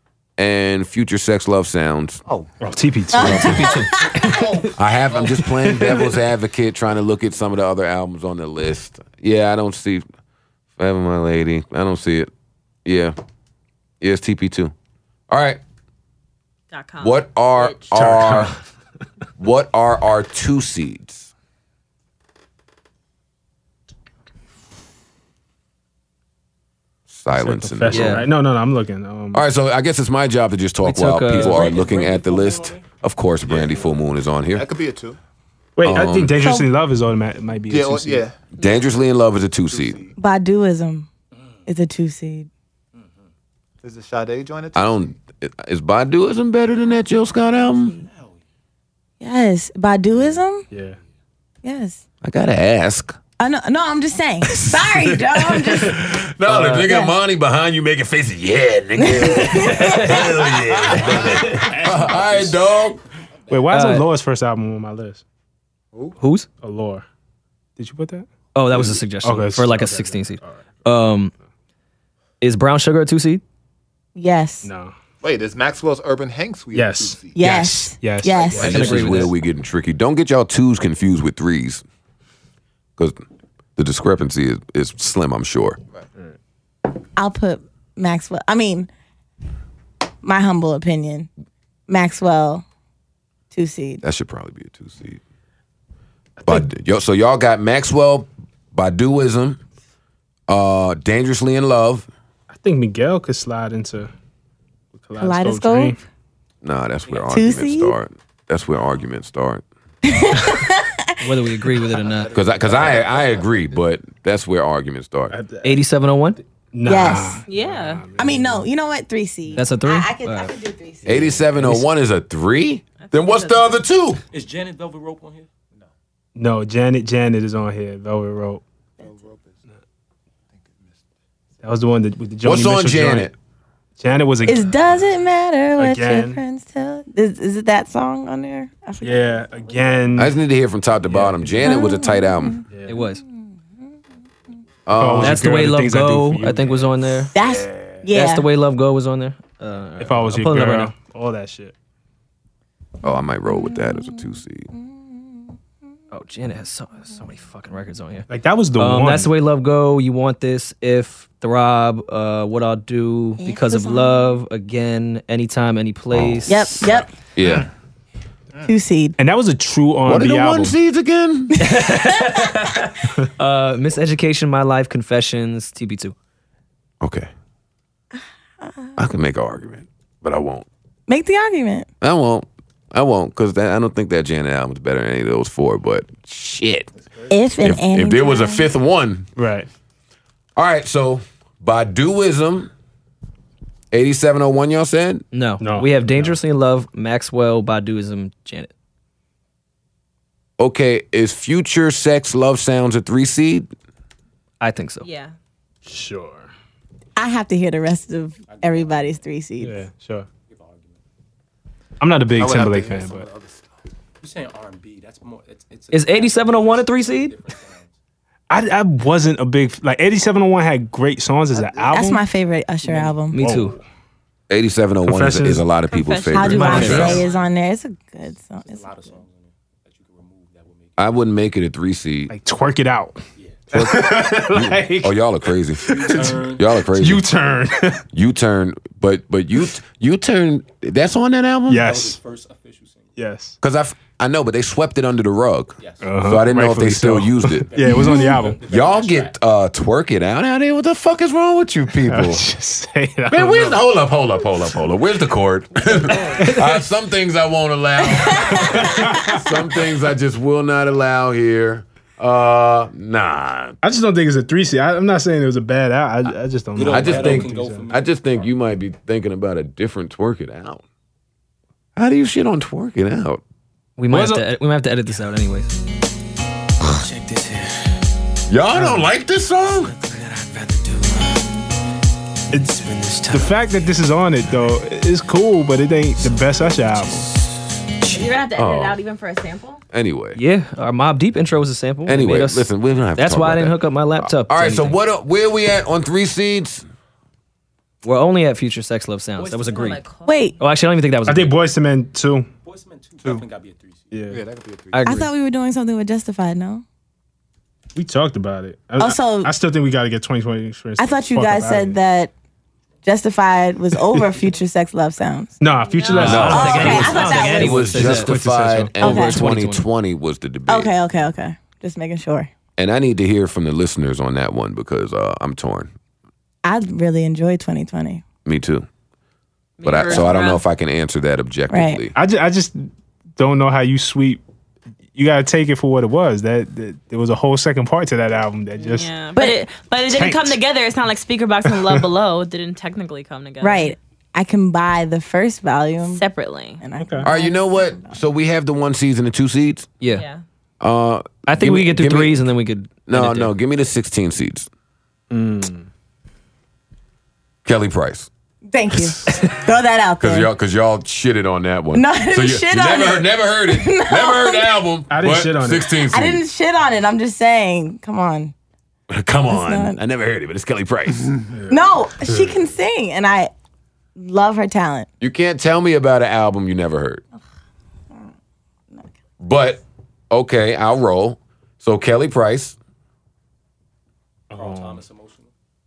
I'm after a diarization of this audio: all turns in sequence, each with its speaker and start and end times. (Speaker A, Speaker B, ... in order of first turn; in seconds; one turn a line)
Speaker A: 0.4-2.2
Speaker B: 2.2-2.5
Speaker C: 2.6-4.3
Speaker D: 3.1-4.3
Speaker A: 3.2-3.8
Speaker E: 3.2-4.3
Speaker B: 3.7-5.4
Speaker A: 4.7-10.0
Speaker C: 5.6-6.1
Speaker A: 10.8-12.3
Speaker A: 12.8-13.2
Speaker A: 14.0-14.7
Speaker A: 15.3-15.6
Speaker F: 16.7-17.3
Speaker A: 17.0-18.6
Speaker C: 17.9-18.6
Speaker A: 19.4-21.3
Speaker A: 27.1-28.2
Speaker C: 27.3-29.4
Speaker E: 27.9-28.3
Speaker A: 29.3-34.6
Speaker E: 30.8-31.8
Speaker G: 31.3-32.9
Speaker B: 33.5-34.0
Speaker B: 34.5-35.2
Speaker C: 35.8-38.2
Speaker A: 35.8-36.4
Speaker D: 36.4-36.7
Speaker B: 37.7-38.4
Speaker A: 38.5-40.0
Speaker F: 38.6-38.9
Speaker B: 39.7-40.2
Speaker D: 40.2-41.1
Speaker G: 41.3-41.6
Speaker D: 41.6-42.5
Speaker G: 42.9-43.2
Speaker B: 43.8-45.2
Speaker A: 44.7-48.0
Speaker G: 47.9-48.4
Speaker D: 49.2-50.7
Speaker C: 50.7-51.0
Speaker D: 51.6-52.0
Speaker A: 52.2-53.2
Speaker D: 53.4-56.0
Speaker A: 54.4-63.0
Speaker E: 56.5-56.9
Speaker D: 56.9-57.1
Speaker D: 59.0-60.0
Speaker E: 59.5-61.3
Speaker G: 61.6-62.5
Speaker C: 63.5-65.2
Speaker E: 63.7-64.1
Speaker B: 65.9-66.2
Speaker E: 66.2-66.5
Speaker C: 66.6-67.0
Speaker C: 67.8-68.3
Speaker E: 68.5-71.3
Speaker C: 69.2-70.6
Speaker E: 72.4-73.4
Speaker D: 74.1-74.7
Speaker C: 74.6-74.9
Speaker B: 75.2-77.4
Speaker C: 76.7-79.3
Speaker D: 77.3-78.8
Speaker E: 78.5-79.3
Speaker A: 78.5-81.8
Speaker A: 83.0-83.2
Speaker A: 83.8-85.8
Speaker D: 87.2-88.9
Speaker D: 90.2-91.3
Speaker D: 91.9-92.6
Speaker D: 93.5-94.0
Speaker A: 94.0-95.2
Speaker A: 96.4-99.6
Speaker A: 100.5-102.1
Speaker C: 102.5-104.1
Speaker C: 104.9-106.0
Speaker D: 105.2-106.0
Speaker A: 106.6-109.6
Speaker G: 107.1-107.3
Speaker D: 107.3-108.0
Speaker D: 110.0-111.2
Speaker E: 111.2-112.3
Speaker B: 112.0-113.8
Speaker A: 112.3-115.3
Speaker C: 115.3-115.8
Speaker E: 115.6-116.4
Speaker C: 116.7-118.7
Speaker D: 116.8-117.4
Speaker F: 117.5-118.0
Speaker D: 118.2-121.4
Speaker E: 119.5-120.5
Speaker A: 121.0-124.2
Speaker E: 121.6-121.8
Speaker F: 123.0-123.8
Speaker G: 124.3-125.5
Speaker C: 126.3-128.6
Speaker B: 129.0-129.6
Speaker B: 130.5-131.0
Speaker C: 131.6-133.3
Speaker A: 132.4-133.3
Speaker C: 134.0-134.8
Speaker D: 134.4-139.5
Speaker C: 135.8-136.4
Speaker C: 139.0-140.3
Speaker A: 140.2-142.6
Speaker C: 141.1-141.5
Speaker D: 141.6-143.2
Speaker C: 142.7-143.0
Speaker E: 142.9-143.2
Speaker A: 144.8-145.4
Speaker C: 144.9-148.0
Speaker E: 145.2-147.3
Speaker D: 147.3-148.5
Speaker E: 148.1-150.9
Speaker C: 150.0-151.7
Speaker A: 153.0-154.7
Speaker D: 153.1-155.2
Speaker E: 156.1-166.9
Speaker C: 158.3-159.3
Speaker D: 163.4-164.3
Speaker A: 166.1-166.4
Speaker D: 166.5-167.1
Speaker A: 167.3-167.7
Speaker B: 167.4-167.7
Speaker D: 168.6-169.2
Speaker C: 169.2-170.8
Speaker A: 170.0-171.6
Speaker D: 171.5-172.4
Speaker E: 171.6-176.1
Speaker A: 177.0-177.3
Speaker D: 178.6-178.9
Speaker A: 179.0-180.7
Speaker D: 181.1-181.9
Speaker A: 182.0-186.9
Speaker G: 186.9-187.6
Speaker D: 187.3-188.7
Speaker A: 187.6-189.3
Speaker C: 189.3-189.7
Speaker A: 190.6-192.7
Speaker A: 193.9-195.2
Speaker E: 195.3-198.7
Speaker C: 195.6-196.4
Speaker A: 200.6-203.7
Speaker E: 204.6-205.1
Speaker F: 205.0-205.3
Speaker C: 205.8-206.5
Speaker D: 207.2-209.8
Speaker G: 208.4-209.2
Speaker C: 209.6-210.3
Speaker G: 210.5-211.0
Speaker C: 212.0-213.2
Speaker B: 212.3-213.8
Speaker G: 214.2-217.9
Speaker E: 215.9-217.4
Speaker C: 218.5-222.2
Speaker D: 221.9-223.4
Speaker G: 222.8-223.2
Speaker E: 223.3-223.8
Speaker C: 223.3-223.8
Speaker A: 224.5-227.2
Speaker C: 225.0-225.7
Speaker F: 225.9-227.2
Speaker D: 226.3-229.2
Speaker E: 226.4-227.2
Speaker C: 226.7-227.1
Speaker G: 226.8-227.5
Speaker G: 228.6-231.3
Speaker A: 231.0-232.3
Speaker C: 232.3-235.2
Speaker G: 233.4-233.7
Speaker A: 233.7-237.3
Speaker C: 235.8-238.0
Speaker G: 235.8-236.6
Speaker A: 238.1-241.8
Speaker C: 241.7-242.2
Speaker G: 241.8-243.2
Speaker C: 243.2-243.6
Speaker A: 243.6-247.7
Speaker G: 245.8-246.2
Speaker C: 246.0-248.6
Speaker G: 247.7-249.4
Speaker D: 247.9-248.5
Speaker A: 248.7-252.4
Speaker C: 252.1-253.8
Speaker A: 253.3-263.8
Speaker C: 256.3-256.8
Speaker D: 258.2-259.1
Speaker C: 258.3-259.5
Speaker C: 263.8-267.9
Speaker G: 266.7-268.5
Speaker A: 266.9-270.8
Speaker A: 271.9-273.4
Speaker E: 274.0-275.8
Speaker C: 274.1-274.4
Speaker E: 277.0-277.7
Speaker A: 278.5-279.9
Speaker C: 278.8-279.1
Speaker E: 279.9-281.4
Speaker C: 282.5-287.3
Speaker E: 282.7-283.6
Speaker F: 288.0-289.8
Speaker A: 288.5-289.0
Speaker A: 289.9-290.4
Speaker E: 290.4-295.0
Speaker A: 292.1-296.9
Speaker E: 298.0-300.0
Speaker G: 299.4-299.9
Speaker F: 299.7-300.5
Speaker D: 300.2-300.5
Speaker E: 300.6-301.5
Speaker C: 301.3-302.5
Speaker G: 302.6-304.2
Speaker C: 304.1-304.4
Speaker B: 304.3-305.2
Speaker E: 304.9-305.3
Speaker D: 305.0-306.8
Speaker C: 307.9-312.0
Speaker D: 309.0-309.5
Speaker D: 311.0-312.3
Speaker D: 313.0-315.6
Speaker C: 315.6-317.2
Speaker F: 315.8-317.5
Speaker E: 316.1-318.4
Speaker A: 316.2-320.9
Speaker D: 316.5-318.1
Speaker C: 317.9-318.9
Speaker E: 318.9-319.8
Speaker D: 319.0-319.4
Speaker D: 320.7-322.5
Speaker A: 322.8-325.9
Speaker D: 326.6-328.2
Speaker A: 328.4-328.9
Speaker F: 329.8-330.6
Speaker A: 329.8-332.1
Speaker D: 331.7-332.0
Speaker C: 332.1-334.4
Speaker C: 335.1-339.1
Speaker F: 338.8-343.9
Speaker D: 339.4-339.6
Speaker C: 340.1-340.6
Speaker C: 341.6-342.1
Speaker D: 343.6-346.2
Speaker F: 346.1-346.8
Speaker D: 346.8-348.2
Speaker C: 347.0-347.3
Speaker A: 347.2-349.9
Speaker F: 350.1-350.4
Speaker A: 350.8-352.4
Speaker E: 351.5-353.5
Speaker A: 353.1-354.7
Speaker C: 355.3-355.9
Speaker A: 357.6-358.3
Speaker D: 358.7-360.5
Speaker A: 359.0-359.5
Speaker A: 360.2-366.4
Speaker D: 361.9-364.7
Speaker C: 365.1-365.9
Speaker D: 366.0-368.5
Speaker A: 369.1-371.3
Speaker D: 369.5-370.0
Speaker C: 371.5-372.5
Speaker D: 371.7-373.5
Speaker D: 374.1-375.1
Speaker A: 375.2-377.2
Speaker A: 379.4-382.8
Speaker C: 384.5-385.0
Speaker G: 384.5-385.5